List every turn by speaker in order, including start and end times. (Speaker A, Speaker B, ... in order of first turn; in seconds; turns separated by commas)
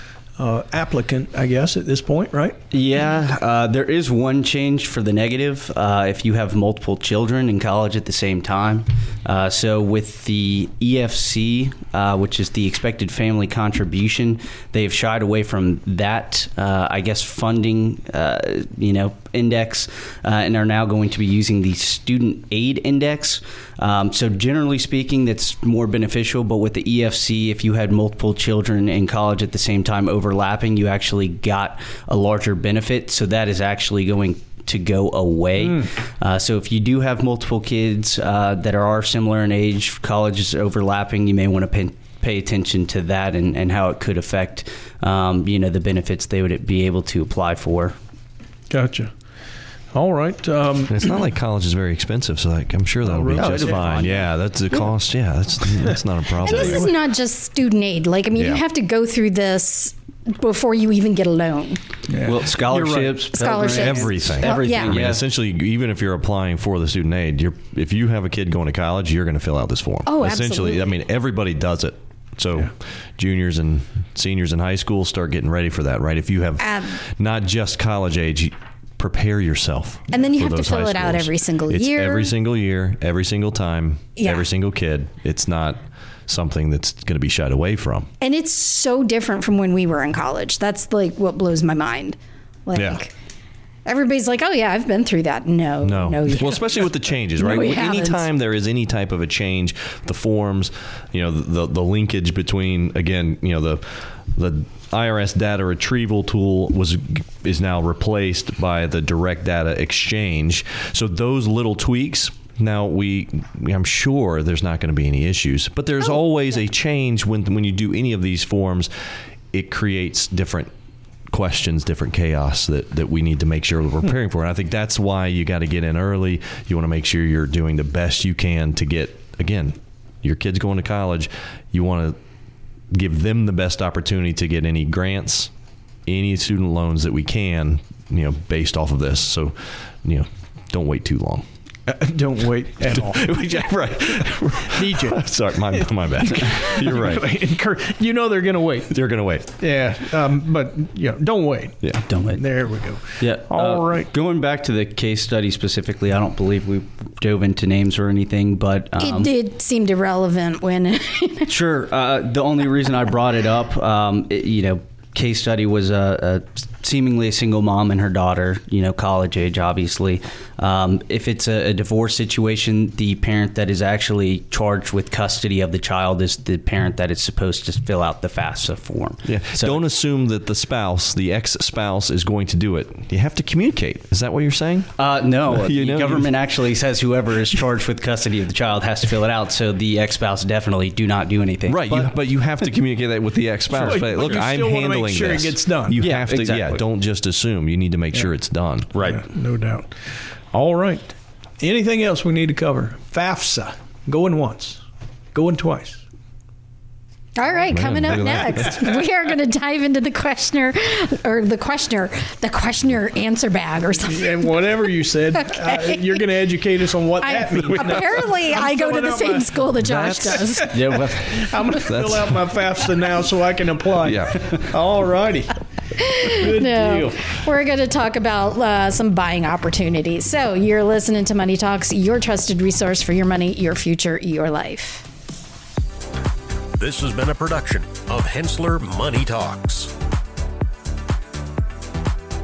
Speaker A: 0.4-2.6, Speaker B: 2.7-48.0, Speaker A: 35.6-35.9, Speaker A: 48.7-49.1, Speaker A: 49.9-51.0, Speaker C: 50.9-56.9, Speaker A: 53.0-53.8, Speaker B: 53.4-54.3, Speaker D: 56.4-61.8, Speaker C: 58.4-58.6, Speaker A: 62.1-63.2, Speaker B: 62.2-65.2, Speaker D: 63.3-65.0, Speaker C: 63.7-88.1, Speaker D: 70.1-70.9, Speaker D: 76.6-77.0, Speaker D: 80.1-82.3, Speaker D: 84.2-84.5, Speaker D: 88.2-93.1, Speaker C: 92.8-93.0, Speaker D: 93.8-98.3, Speaker C: 95.8-118.9, Speaker C: 119.5-120.7, Speaker C: 121.3-132.2, Speaker C: 132.9-135.5, Speaker C: 136.1-141.4, Speaker A: 141.9-143.2, Speaker C: 142.9-147.3, Speaker A: 144.7-145.2, Speaker A: 145.7-148.9, Speaker C: 148.9-149.5, Speaker A: 149.6-151.8, Speaker B: 152.1-152.5, Speaker A: 152.4-154.1, Speaker B: 153.2-159.3, Speaker D: 159.0-161.5, Speaker B: 161.5-179.9, Speaker C: 179.2-186.4, Speaker B: 185.0-192.1, Speaker C: 191.7-199.0, Speaker A: 193.7-196.0, Speaker B: 196.0-196.8, Speaker B: 198.9-199.2, Speaker A: 198.9-204.8, Speaker A: 205.3-206.0, Speaker D: 207.4-214.8, Speaker C: 207.7-208.8, Speaker A: 214.1-225.5, Speaker D: 215.3-216.1, Speaker D: 217.2-220.8, Speaker B: 220.7-221.3, Speaker C: 221.8-222.4, Speaker C: 224.0-224.4, Speaker D: 226.0-235.1, Speaker A: 226.4-227.1, Speaker E: 236.8-239.9